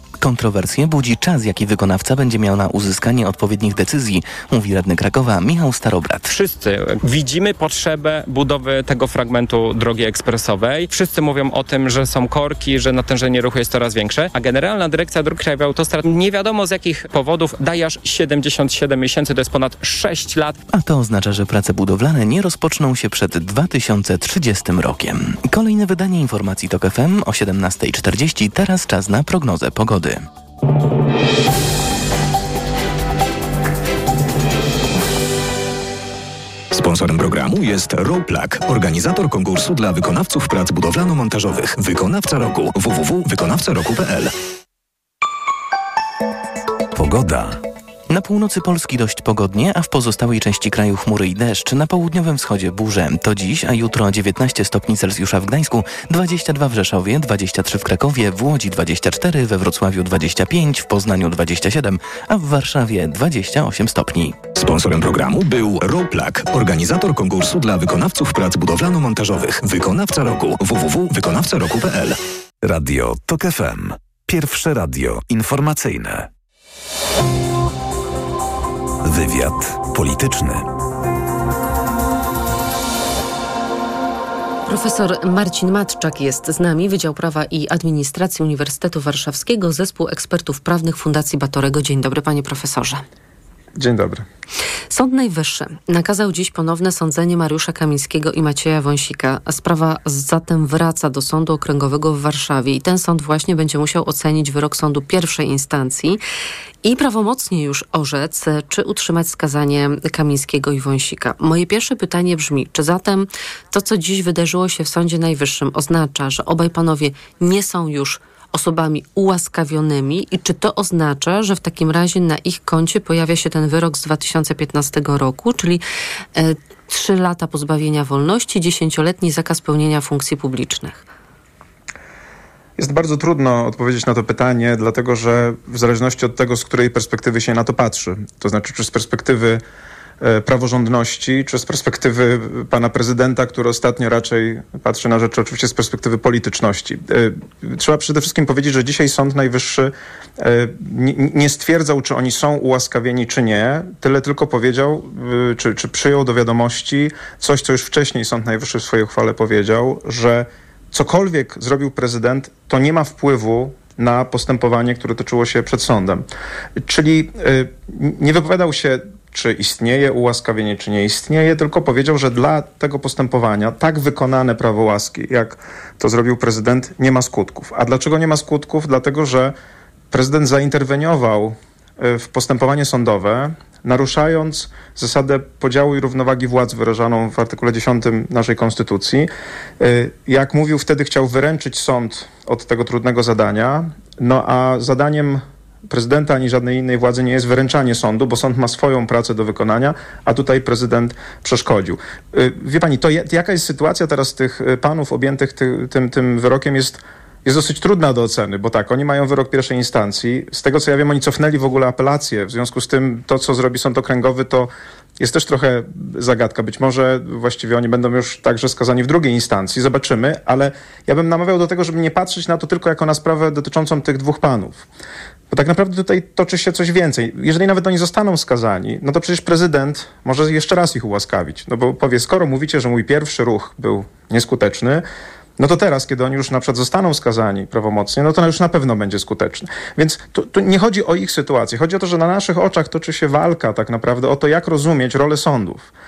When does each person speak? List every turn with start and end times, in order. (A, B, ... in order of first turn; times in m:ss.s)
0:00.2-0:06.3 A
0:06.3-0:20.6 B
0:20.7-0:30.2 A
0:36.7-0:44.3 C
0:47.0-0:47.6 D
0:48.1-1:04.4 A
1:04.6-1:12.2 C
1:12.6-1:16.3 D
1:19.0-1:20.7 D
1:24.7-1:33.0 E
1:33.8-1:34.2 F
1:34.9-1:46.2 E
1:46.8-2:05.8 E
2:06.4-2:11.1 E
2:12.8-2:19.6 F
2:20.2-2:46.2 F
2:46.8-2:59.5 F
3:00.1-3:09.3 F
3:09.8-3:44.8 F
3:45.5-3:55.0 F
3:55.6-4:05.9 F